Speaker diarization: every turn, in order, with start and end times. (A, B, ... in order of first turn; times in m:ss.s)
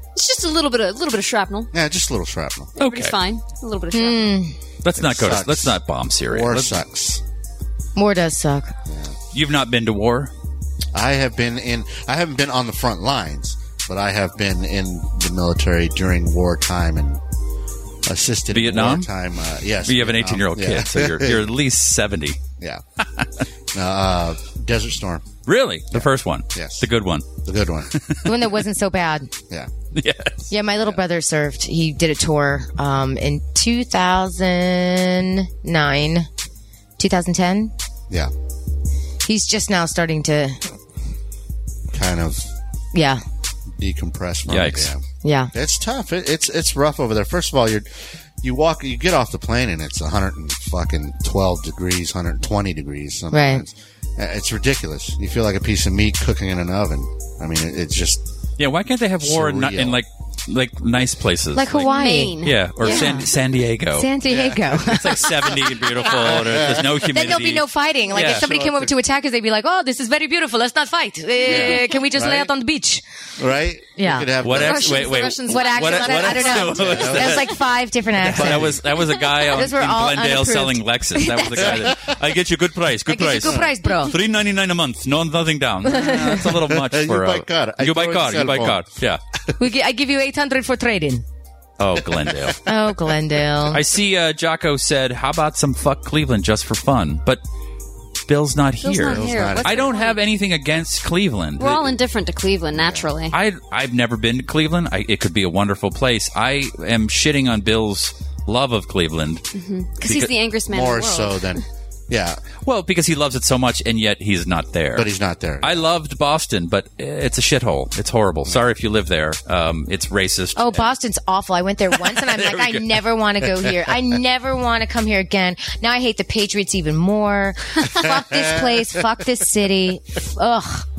0:00.2-0:01.7 A
0:01.7-0:02.7 B
0:02.8-0:04.4 A
0:02.8-0:03.2 C
0:03.9-0:04.5 D
0:04.8-0:06.7 C
0:04.9-0:07.2 B
0:08.0-0:08.7 D
0:08.8-0:09.2 B
0:09.3-0:10.3 C
0:10.9-0:17.2 B
0:18.0-0:21.5 B
0:18.5-0:19.1 C
0:19.8-0:22.4 C
0:23.0-0:23.3 C
0:23.7-0:25.3 B
0:25.4-0:27.3 C
0:25.9-0:26.9 B
0:27.4-0:27.9 B
0:27.9-0:28.3 C
0:28.2-0:29.3 D
0:29.9-0:30.5 C
0:30.5-0:36.3 D
0:37.0-0:37.7 D
0:39.2-0:40.6 D
0:41.9-0:42.5 B
0:42.9-0:43.2 D
0:43.8-0:58.2 B
0:44.5-0:44.9 C
0:45.2-0:45.5 D
0:53.3-0:53.6 D
0:58.6-1:01.9 C
0:59.2-1:00.0 B
1:01.5-1:03.3 D
1:01.7-1:03.2 A
1:02.4-1:04.1 C
1:03.9-1:05.5 D
1:04.3-1:04.6 B
1:04.8-1:07.6 C
1:06.2-1:06.9 B
1:07.1-1:13.0 D
1:08.1-1:08.9 B
1:08.2-1:08.4 C
1:11.4-1:12.5 B
1:13.4-1:14.9 B
1:14.0-1:14.3 D
1:14.4-1:17.6 C
1:14.6-1:16.9 A
1:15.4-1:18.8 D
1:16.6-1:17.4 B
1:18.2-1:29.2 C
1:18.3-1:18.8 B
1:19.4-1:22.0 D
1:21.6-1:22.0 B
1:23.1-1:24.2 D
1:23.4-1:23.7 B
1:25.8-1:26.4 D
1:26.6-1:28.8 B
1:29.6-1:31.2 D
1:31.8-1:32.6 C
1:32.0-1:32.6 B
1:32.6-1:33.8 D
1:33.7-1:37.4 C
1:38.3-1:41.9 C
1:38.8-1:40.2 A
1:39.0-1:40.0 B
1:41.6-1:43.4 A
1:42.7-1:43.1 B
1:43.3-1:49.4 C
1:49.5-1:51.6 A
1:50.0-1:50.3 C
1:50.7-1:52.4 B
1:52.6-1:55.1 C
1:54.9-1:55.8 B
1:55.6-2:00.9 C
2:00.6-2:10.8 D
2:02.0-2:03.0 C